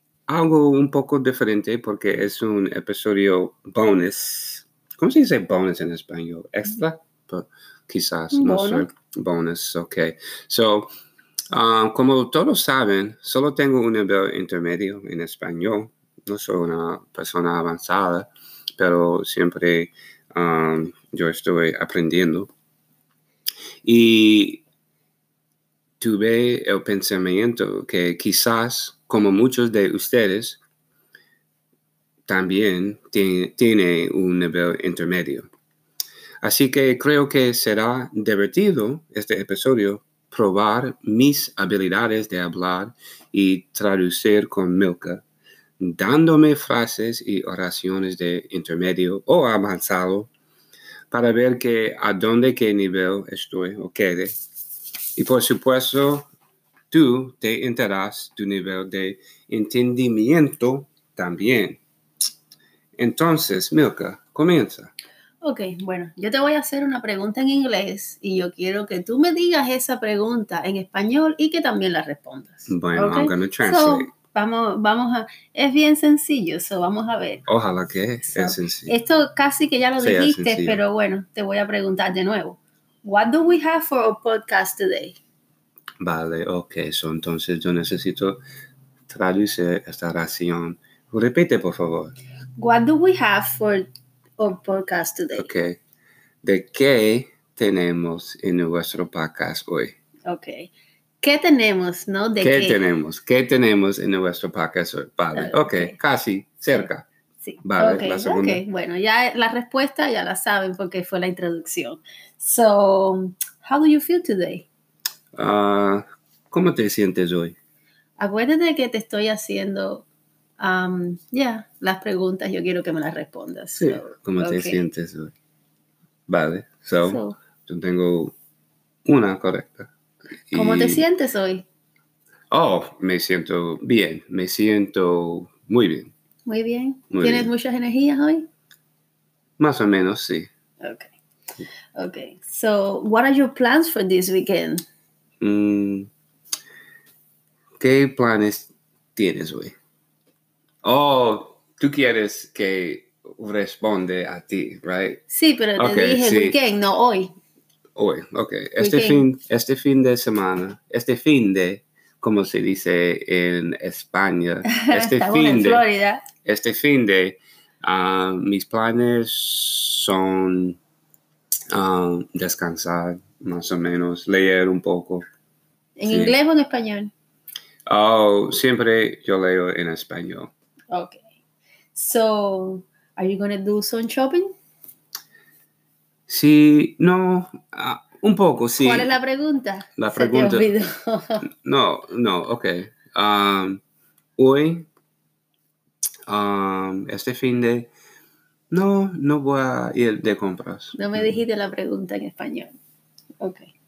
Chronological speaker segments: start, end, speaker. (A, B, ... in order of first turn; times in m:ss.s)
0:00.3-0:10.9 A
0:08.3-0:08.9 B
0:11.5-0:22.5 A
0:23.8-0:24.6 A
0:26.0-0:30.6 A
0:32.3-0:35.5 A
0:36.4-0:45.2 A
0:45.8-0:50.3 A
0:51.1-0:54.4 A
0:55.2-0:56.3 A
0:56.9-1:01.8 A
1:03.0-1:04.9 A
1:05.4-1:17.4 B
1:12.7-1:14.1 A
1:17.5-1:18.9 A
1:18.3-1:25.2 B
1:20.0-1:20.8 A
1:26.0-1:28.4 A
1:29.1-1:32.1 A
1:32.6-1:35.5 B
1:35.4-1:35.8 A
1:36.4-1:39.9 A
1:40.3-1:40.7 B
1:41.2-1:42.8 B
1:42.4-1:47.1 A
1:45.3-1:45.9 B
1:47.4-1:54.6 B
1:47.6-1:48.6 A
1:55.4-1:57.6 A
1:58.2-2:00.0 B
2:00.6-2:04.8 B
2:03.8-2:05.3 A
2:06.3-2:08.3 A
2:07.0-2:07.4 B
2:09.0-2:09.9 A
2:10.5-2:11.0 A
2:10.5-2:11.6 B
2:12.5-2:16.1 A
2:16.4-2:18.4 B
2:17.1-2:17.5 A
2:19.6-2:20.5 A
2:20.8-2:21.1 B
2:22.0-2:24.8 B
2:25.4-2:26.1 A
2:27.8-2:29.7 A
2:30.8-2:35.2 A
2:35.3-2:37.3 B
2:35.8-2:36.6 A
2:38.0-2:45.8 A
2:38.8-2:39.3 B
2:44.7-2:46.2 B
2:46.4-2:50.8 A
2:51.7-2:55.2 A
2:56.0-2:57.1 B
2:56.0-2:56.3 A
2:57.9-3:00.5 A
3:00.9-3:01.2 B
3:01.9-3:04.5 B
3:06.3-3:09.1 A
3:08.7-3:11.4 B
3:10.0-3:10.7 A
3:11.6-3:13.8 A
3:14.4-3:14.9 A
3:16.3-3:17.9 A
3:18.7-3:21.4 A
3:21.0-3:22.7 B
3:23.4-3:23.7 B